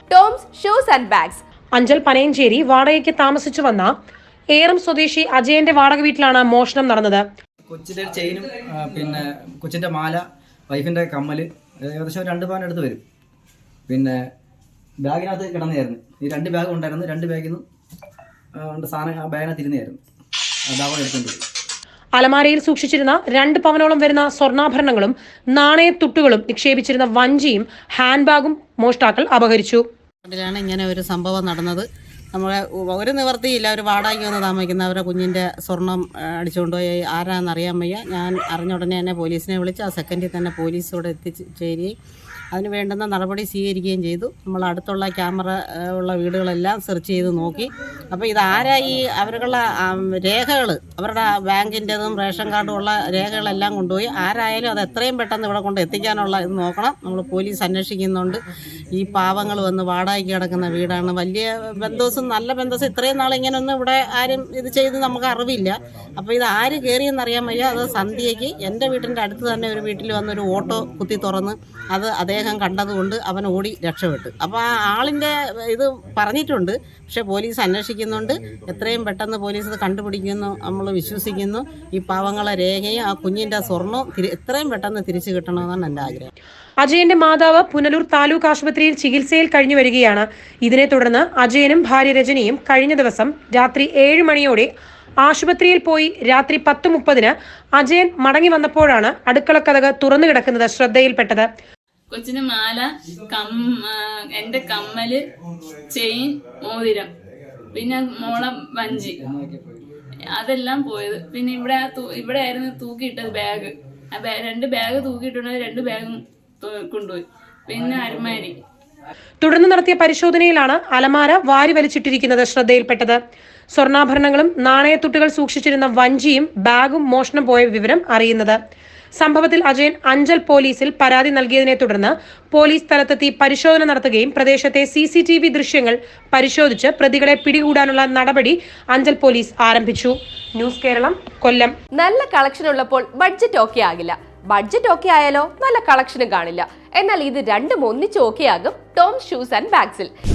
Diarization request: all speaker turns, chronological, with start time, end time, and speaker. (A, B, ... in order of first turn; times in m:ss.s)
0:00.1-0:01.4 A
0:01.8-0:03.9 B
0:04.5-0:07.2 B
0:07.7-0:13.0 C
0:13.9-0:14.2 C
0:15.0-0:17.6 C
0:18.6-0:20.0 C
0:20.7-0:21.4 C
0:22.2-0:29.8 B
0:30.2-0:41.9 D
0:42.5-0:58.4 D
0:58.9-1:26.3 D
1:26.8-1:34.7 B
1:35.2-1:41.5 B
1:42.1-1:45.2 E
1:45.9-1:47.1 E
1:47.7-1:49.2 E
1:49.0-1:49.8 C
1:50.3-1:58.6 E
1:59.4-2:03.2 B
2:03.7-2:08.6 B
2:09.2-2:21.7 B
2:22.0-2:30.1 A